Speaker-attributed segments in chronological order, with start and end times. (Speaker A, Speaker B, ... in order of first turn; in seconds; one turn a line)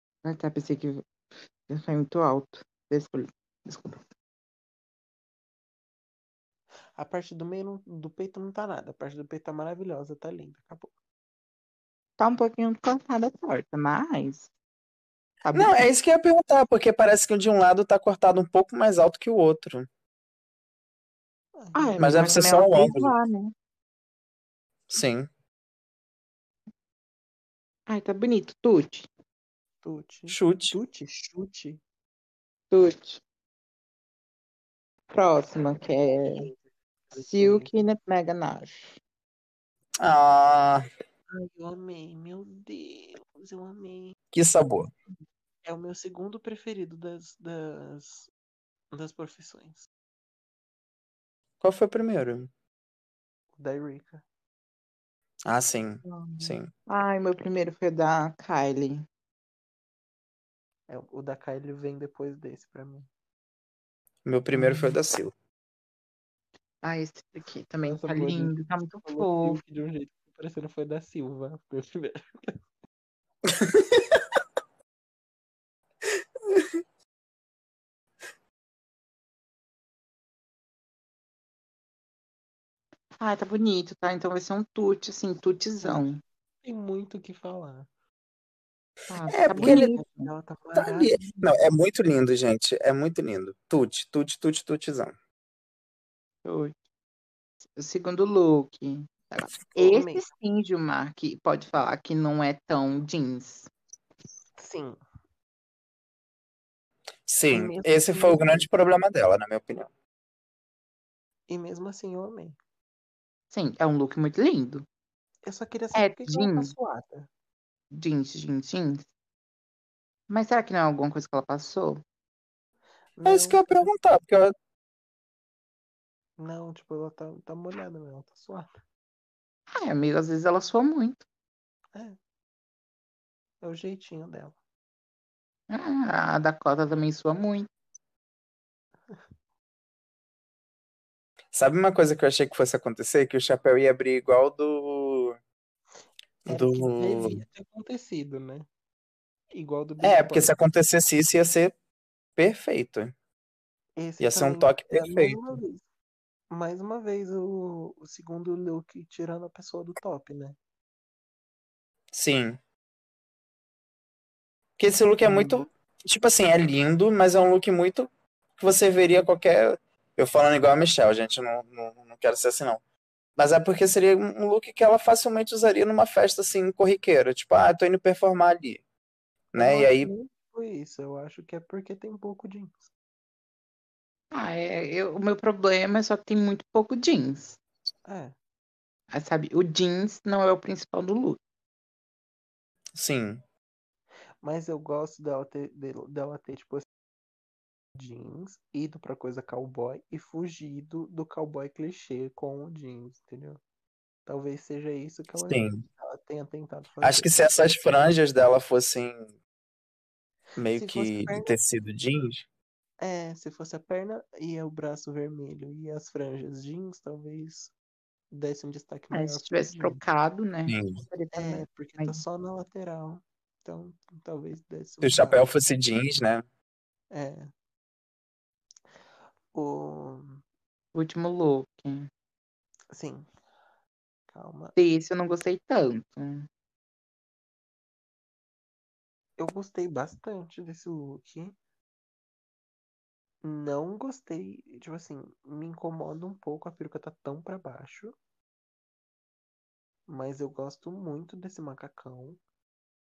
Speaker A: 0.2-1.0
Speaker A: 1.7-4.0
Speaker B: 7.0-10.9
Speaker A: 12.2-14.5
Speaker A: 15.4-15.9
Speaker C: 15.5-19.9
Speaker B: 21.6-22.5
Speaker A: 21.7-23.5
Speaker C: 22.0-23.1
Speaker C: 24.9-25.3
Speaker A: 27.9-29.1
Speaker B: 29.8-31.8
Speaker C: 30.3-30.8
Speaker A: 32.7-33.2
Speaker A: 35.1-36.5
Speaker B: 36.1-37.7
Speaker A: 37.1-39.0
Speaker C: 40.0-40.9
Speaker B: 41.3-44.2
Speaker C: 44.3-44.9
Speaker B: 45.6-48.3
Speaker B: 48.9-49.9
Speaker C: 51.6-52.5
Speaker B: 53.6-54.2
Speaker C: 55.5-56.7
Speaker A: 56.0-59.0
Speaker B: 60.9-63.1
Speaker C: 64.2-65.3
Speaker A: 64.5-64.9
Speaker A: 66.8-69.6
Speaker B: 67.9-72.5
Speaker C: 73.5-74.2
Speaker A: 83.2-86.2
Speaker B: 85.8-87.9
Speaker A: 89.1-90.3
Speaker C: 89.3-89.9
Speaker B: 89.5-91.2
Speaker C: 90.7-95.2
Speaker A: 96.5-96.7
Speaker A: 97.8-103.7
Speaker B: 99.7-100.2
Speaker B: 104.6-105.0
Speaker C: 107.3-109.9
Speaker B: 107.5-108.7
Speaker B: 111.5-112.6
Speaker A: 113.5-114.9
Speaker B: 115.5-117.3
Speaker A: 116.0-116.7
Speaker A: 117.9-119.1
Speaker A: 120.3-122.0
Speaker B: 123.2-123.9
Speaker C: 123.2-124.5
Speaker B: 126.4-128.7
Speaker A: 129.7-131.2
Speaker B: 133.6-134.6
Speaker A: 135.7-137.7
Speaker C: 141.5-145.4
Speaker C: 146.4-147.4
Speaker B: 146.4-148.7
Speaker B: 149.5-150.5
Speaker C: 150.0-151.7
Speaker C: 152.4-153.1
Speaker B: 154.0-155.8
Speaker C: 154.2-155.6
Speaker B: 156.5-160.6
Speaker C: 162.1-162.6
Speaker C: 164.8-168.1
Speaker B: 165.2-165.7
Speaker C: 168.6-172.8
Speaker C: 173.4-178.8
Speaker C: 179.5-180.1
Speaker B: 179.6-182.9
Speaker A: 184.3-187.6
Speaker B: 188.1-188.4
Speaker A: 189.1-191.4
Speaker C: 192.9-193.4
Speaker B: 194.4-196.9
Speaker B: 197.9-203.6
Speaker B: 204.3-207.3
Speaker C: 205.4-205.8
Speaker C: 207.0-209.3
Speaker C: 210.6-212.4
Speaker B: 210.7-211.6
Speaker B: 213.0-217.7
Speaker B: 218.3-220.0
Speaker A: 219.1-222.2
Speaker C: 220.7-221.0
Speaker B: 221.3-225.5
Speaker C: 225.0-226.4
Speaker B: 227.1-227.5
Speaker B: 229.5-230.4
Speaker A: 230.9-232.1
Speaker B: 232.9-233.3
Speaker B: 234.3-234.8
Speaker A: 234.8-236.5
Speaker B: 239.4-241.6
Speaker B: 243.4-248.2
Speaker B: 250.1-252.4